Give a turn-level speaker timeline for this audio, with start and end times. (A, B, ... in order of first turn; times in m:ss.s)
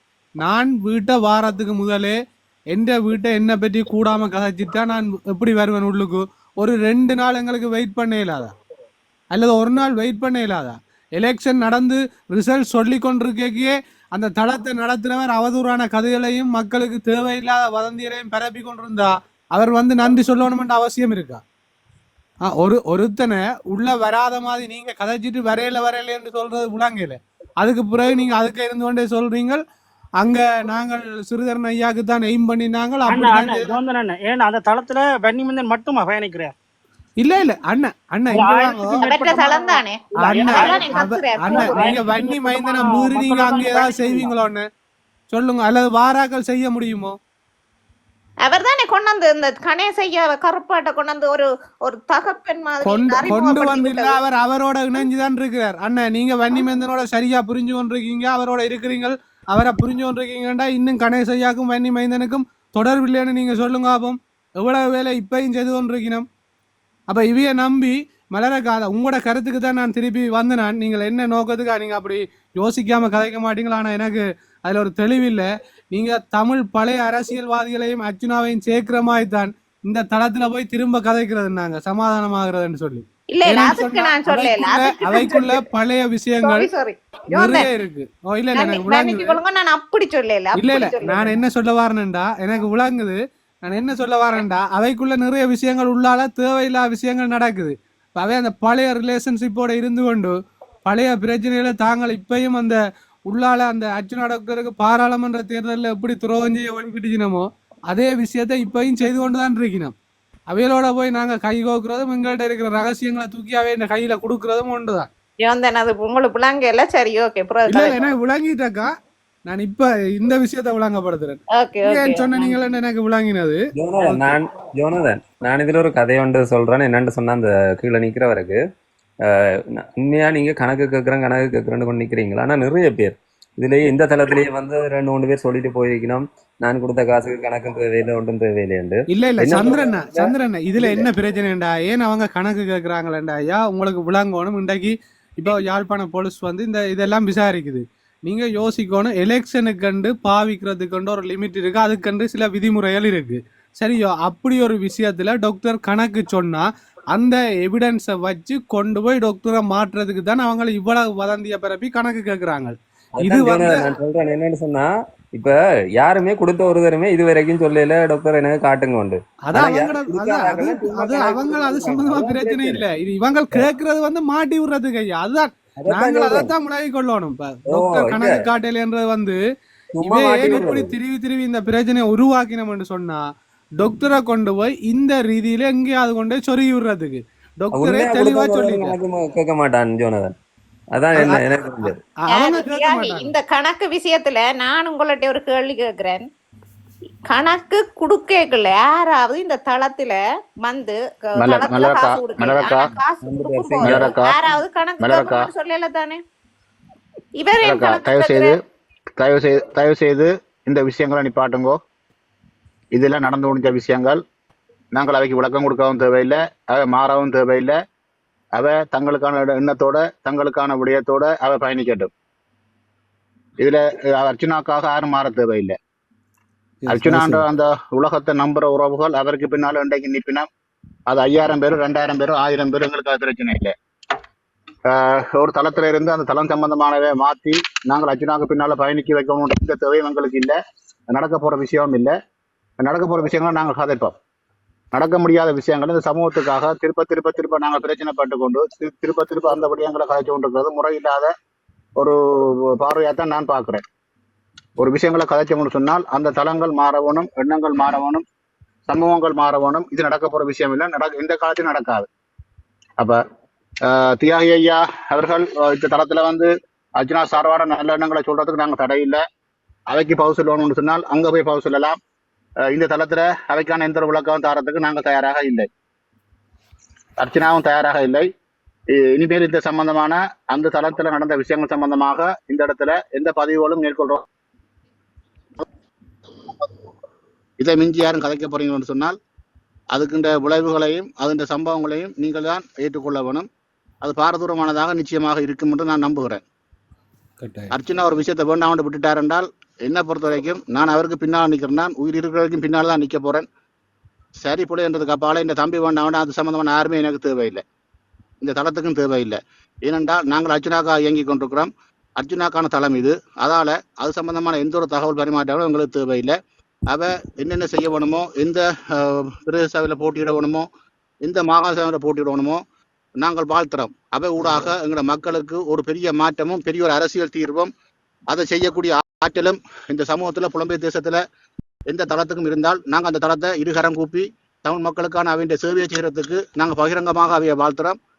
0:00.4-0:02.2 A
0:02.7-0:08.5 A
0:09.3-0:21.4 A
0:22.4-0:29.6 A
0:30.2-0:33.8 A
0:33.1-0:36.5 B
0:37.2-0:39.0 A
0:38.3-0:40.8 B
0:39.0-0:42.6 C
0:40.2-0:44.6 A
0:41.7-0:44.3 B
0:45.3-0:47.2 A
0:48.4-0:54.2 C
0:52.8-1:06.2 A
1:07.1-1:26.7 A
1:23.3-1:25.6 C
1:26.4-1:27.7 C
1:27.3-1:29.4 A
1:28.5-1:31.4 C
1:30.6-1:40.3 A
1:40.8-1:49.9 A
1:50.5-1:55.1 A
1:55.4-1:58.1 C
1:57.7-1:58.9 A
1:59.4-2:04.4 A
2:01.5-2:02.6 C
2:03.8-2:08.6 D
2:10.0-2:21.0 D
2:19.1-2:43.9 A
2:43.2-2:52.8 D
2:49.4-2:59.4 A
2:55.8-2:56.5 D
2:57.7-2:58.4 D
2:59.9-3:00.9 D
3:00.0-3:03.2 A
3:03.8-3:09.0 A
3:07.7-3:10.3 D
3:10.9-3:12.0 D
3:11.2-3:11.4 A
3:12.2-3:13.3 A
3:12.3-3:16.3 C
3:17.2-3:26.2 C
3:21.4-3:22.9 E
3:23.2-3:24.6 D
3:23.8-3:24.4 E
3:25.0-3:25.5 E
3:27.4-3:28.6 C
3:27.6-3:28.5 E
3:29.2-3:31.8 E
3:32.9-3:34.2 E
3:34.9-3:37.8 E
3:38.6-3:42.1 E
3:43.6-3:45.7 E
3:46.9-3:50.4 E
3:47.0-3:47.4 A
3:51.1-3:53.7 E
3:54.9-4:00.6 E
4:01.1-4:02.1 E
4:02.8-4:04.1 E
4:04.9-4:11.3 E
4:12.7-4:13.8 E
4:14.8-4:18.2 E
4:18.9-4:22.1 E
4:23.9-4:29.2 E
4:29.9-4:32.0 E
4:32.7-4:35.7 E
4:37.2-4:38.3 E
4:38.9-4:44.2 E
4:47.6-4:49.1 F
4:49.9-4:53.5 F
4:54.0-4:56.4 F
4:57.4-4:57.7 A
4:57.7-5:03.4 F
5:04.4-5:07.6 F
5:08.4-5:16.3 F
5:16.9-5:20.7 F
5:21.2-5:22.6 F
5:23.2-5:27.7 F
5:28.3-5:31.2 F
5:31.9-5:38.0 F